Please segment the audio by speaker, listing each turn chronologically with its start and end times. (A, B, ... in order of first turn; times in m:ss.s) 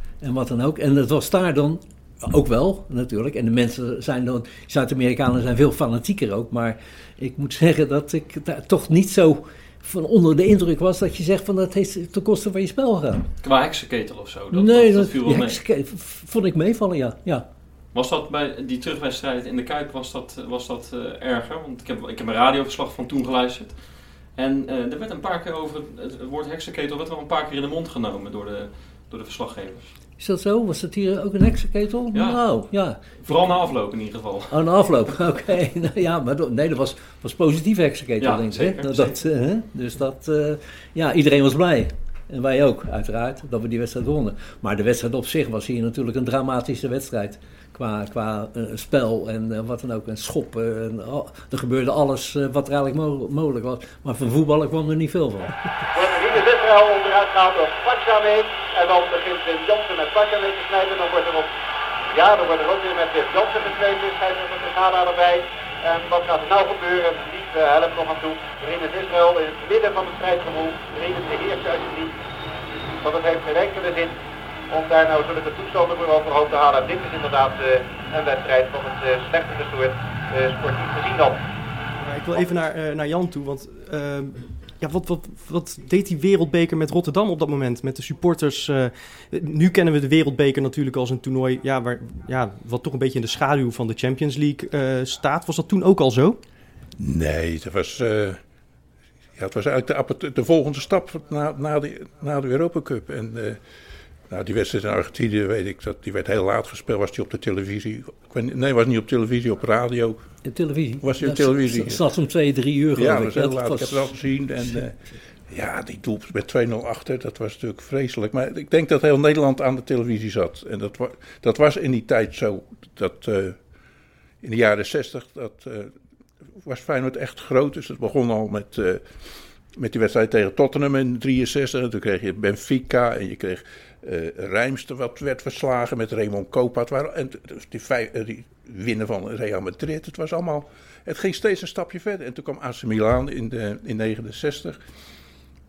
0:00.2-0:13.3 A
0:13.4-0:15.6 B
0:14.5-0:17.4 A
0:17.9-0:23.8 B
0:24.3-0:29.9 B
0:30.2-0:33.3 A
0:32.1-0:32.4 B
0:33.2-0:34.6 B
0:34.5-0:55.6 A
0:38.2-0:39.2 B
0:55.9-1:01.5 C
1:02.1-1:12.2 C
1:13.0-1:14.2 C
1:14.7-1:21.4 C
1:22.0-1:36.4 D
1:37.0-1:38.4 E
1:39.4-1:43.6 E
1:44.3-1:50.4 E
1:50.4-1:54.8 A
1:51.0-1:52.0 E
1:53.0-2:03.6 E
2:04.4-2:05.9 E
2:06.6-2:09.1 E
2:09.7-2:24.8 E